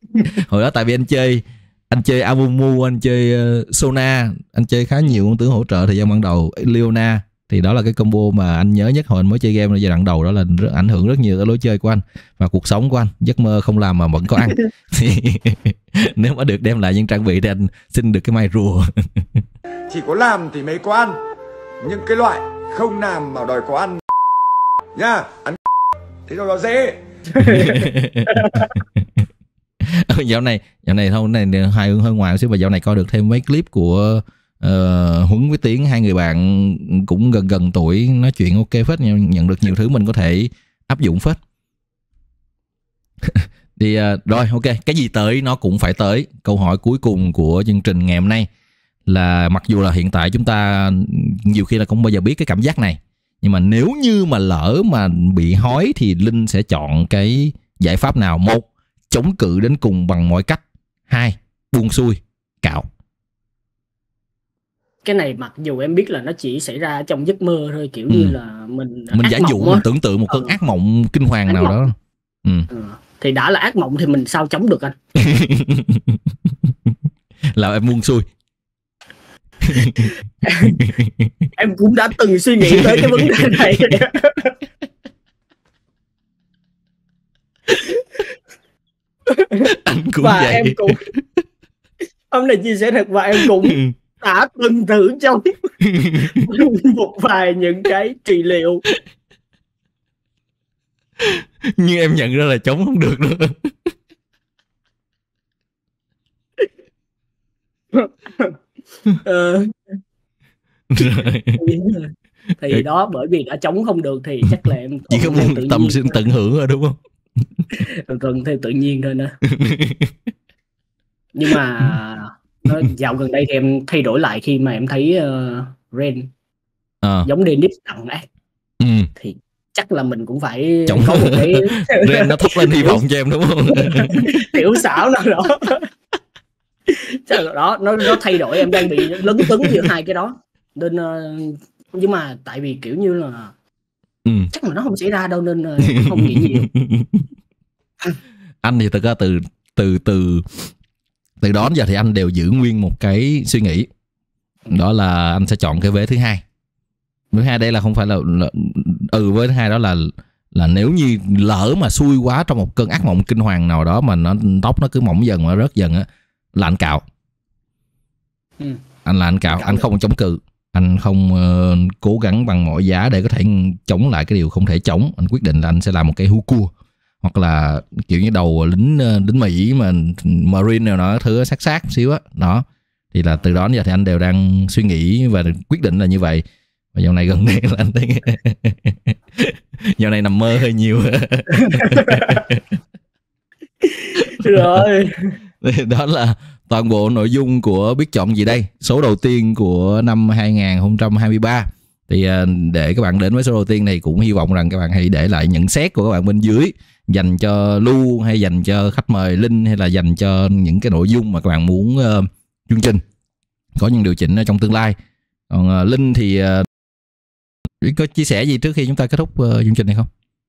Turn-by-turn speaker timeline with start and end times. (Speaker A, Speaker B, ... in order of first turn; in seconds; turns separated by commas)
Speaker A: 0.2-19.4, Speaker B: 19.9-21.2, Speaker B: 21.8-24.0, Speaker B: 24.9-25.6, Speaker B: 26.3-27.0, Speaker C: 27.3-28.7, Speaker A: 27.4-29.2, Speaker A: 29.8-41.4, Speaker A: 43.2-48.5, Speaker A: 49.0-62.9, Speaker C: 65.0-70.6, Speaker A: 68.1-68.3, Speaker A: 69.1-72.7, Speaker C: 71.5-71.8, Speaker C: 72.7-75.0, Speaker A: 75.2-76.9, Speaker A: 77.5-78.3, Speaker A: 79.6-81.5, Speaker C: 80.4-80.8, Speaker C: 81.6-84.6, Speaker A: 82.6-84.0, Speaker C: 89.3-91.0, Speaker A: 89.6-91.2, Speaker C: 92.3-95.6, Speaker A: 93.3-93.9, Speaker A: 95.8-96.5, Speaker C: 96.2-98.8, Speaker A: 101.2-103.9, Speaker C: 107.9-108.5, Speaker C: 109.2-109.7, Speaker A: 110.9-111.6, Speaker C: 111.5-116.2, Speaker A: 114.5-117.0, Speaker C: 117.7-119.4, Speaker A: 119.4-120.3, Speaker C: 121.3-126.3, Speaker C: 127.2-128.3, Speaker A: 128.8-129.1, Speaker C: 129.2-133.0, Speaker A: 130.9-134.6, Speaker C: 133.7-135.9, Speaker C: 136.9-143.5, Speaker A: 138.6-139.9, Speaker A: 144.2-144.5, Speaker C: 144.5-146.7, Speaker A: 145.9-147.3, Speaker A: 148.6-150.7, Speaker A: 151.4-153.9, Speaker A: 154.7-156.4, Speaker A: 157.3-167.0, Speaker A: 169.0-176.7, Speaker C: 169.5-169.8, Speaker A: 177.2-192.7, Speaker C: 191.5-192.4, Speaker C: 193.8-195.4, Speaker A: 194.2-194.8, Speaker A: 195.6-213.0, Speaker A: 213.8-214.9, Speaker A: 215.5-216.7, Speaker A: 217.8-220.1